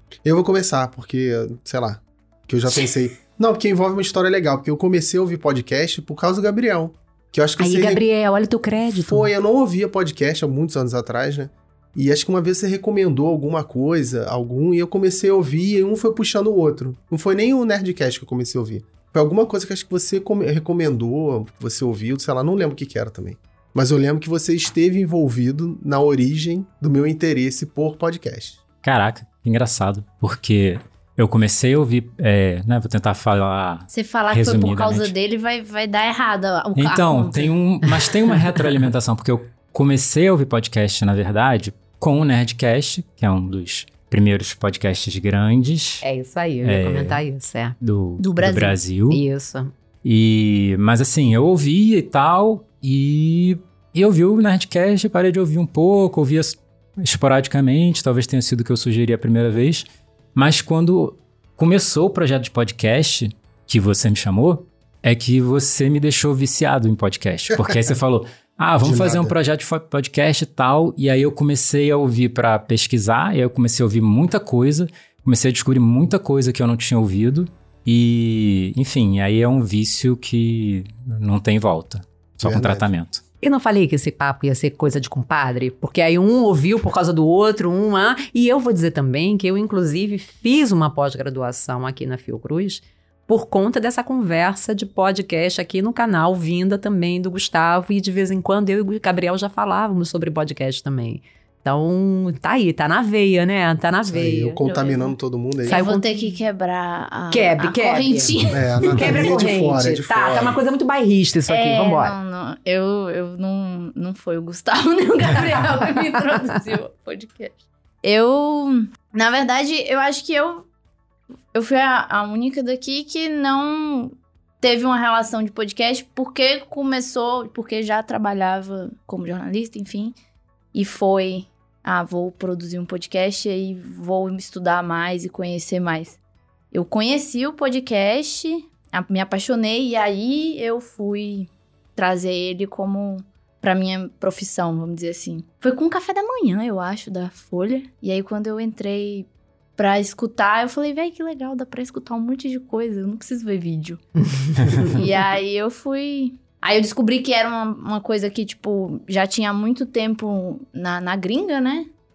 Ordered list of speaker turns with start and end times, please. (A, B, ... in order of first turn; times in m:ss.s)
0:00.2-0:08.0 A
0:07.6-0:09.3 B
0:08.9-0:28.6 A
0:28.8-0:35.1 C
0:33.9-0:37.5 D
0:36.8-0:46.0 C
0:46.0-0:47.8 B
0:46.6-0:47.2 C
0:47.8-0:49.2 C
0:48.2-0:48.8 D
0:49.1-0:49.7 B
0:50.0-1:23.2 C
1:08.8-1:09.3 A
1:22.4-1:22.9 A
1:23.4-1:44.6 B
1:44.0-1:45.9 A
1:44.6-1:45.1 D
1:45.6-1:49.3 D
1:45.7-1:46.3 B
1:47.3-1:52.1 B
1:48.5-1:50.6 A
1:51.5-2:00.6 D
2:01.5-2:10.2 D
2:10.7-2:16.2 D
2:16.7-2:34.0 D
2:34.2-2:34.9 B
2:34.6-2:41.9 D